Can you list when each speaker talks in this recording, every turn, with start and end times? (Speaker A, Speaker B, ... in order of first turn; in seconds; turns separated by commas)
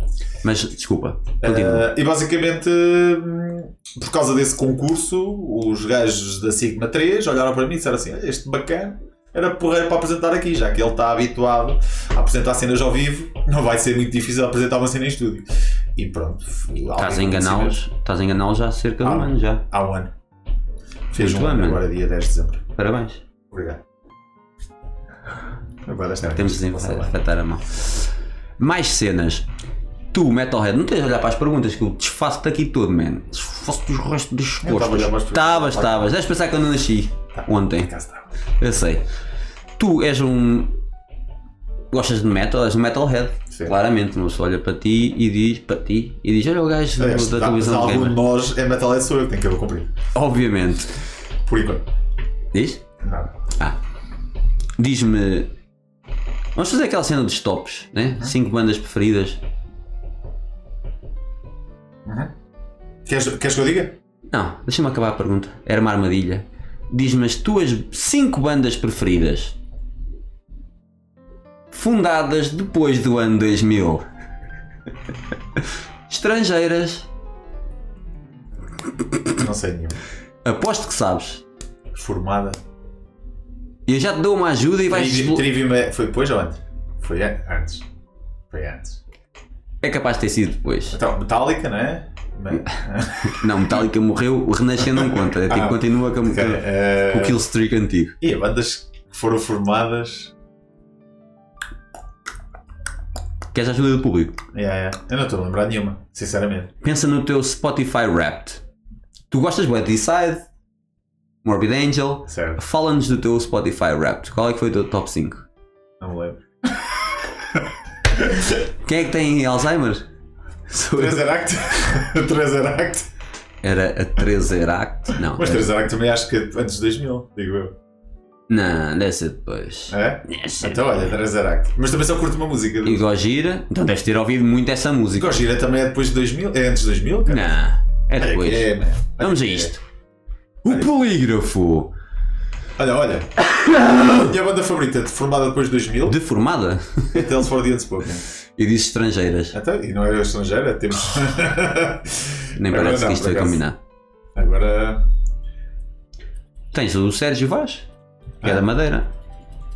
Speaker A: 0.4-1.9, Speaker B: 1.4-17.8, Speaker A: 16.9-19.6, Speaker B: 19.0-20.1, Speaker B: 21.1-22.6, Speaker A: 21.2-21.8, Speaker A: 22.8-23.2, Speaker B: 23.5-23.8, Speaker B: 25.9-27.1, Speaker A: 26.4-28.1, Speaker A: 28.6-29.5, Speaker A: 30.1-37.9, Speaker B: 34.6-36.1, Speaker B: 37.4-38.3, Speaker A: 38.6-39.0, Speaker A: 39.8-40.8, Speaker A: 41.9-48.2, Speaker B: 47.0-49.9, Speaker A: 50.1-50.9, Speaker B: 51.5-51.9, Speaker A: 52.5-52.8, Speaker B: 53.0-53.3, Speaker A: 54.8-55.5, Speaker A: 56.6-59.4, Speaker B: 62.0-62.3, Speaker B: 63.0-64.0, Speaker A: 64.3-69.6, Speaker A: 71.7-74.0, Speaker A: 75.6-77.1, Speaker B: 79.3-80.0, Speaker A: 80.4-81.4, Speaker B: 81.9-82.6, Speaker A: 83.9-85.5, Speaker B: 84.9-87.9, Speaker B: 88.5-89.0, Speaker A: 89.8-91.0, Speaker B: 90.9-93.7, Speaker A: 92.6-98.2, Speaker B: 94.9-97.4, Speaker B: 98.2-100.3, Speaker A: 103.5-104.4, Speaker B: 104.5-106.7, Speaker A: 106.8-108.6, Speaker A: 109.3-110.5, Speaker A: 111.4-115.5, Speaker B: 112.3-112.6, Speaker B: 116.0-118.5, Speaker A: 118.7-120.1, Speaker A: 120.7-121.3, Speaker B: 120.9-123.1, Speaker A: 123.6-125.7, Speaker B: 125.2-127.7, Speaker A: 128.5-131.1, Speaker B: 129.9-133.0, Speaker A: 132.8-135.4, Speaker B: 135.2-137.6, Speaker A: 137.3-139.8, Speaker B: 138.2-139.7, Speaker A: 140.6-141.9, Speaker B: 142.8-143.4, Speaker A: 143.5-144.3, Speaker B: 144.0-146.2, Speaker A: 146.1-147.3, Speaker B: 147.1-148.2, Speaker A: 148.6-149.6, Speaker B: 149.5-153.6, Speaker A: 152.6-153.8, Speaker B: 154.3-155.0, Speaker A: 156.7-157.9, Speaker B: 158.4-158.7, Speaker A: 158.4-159.1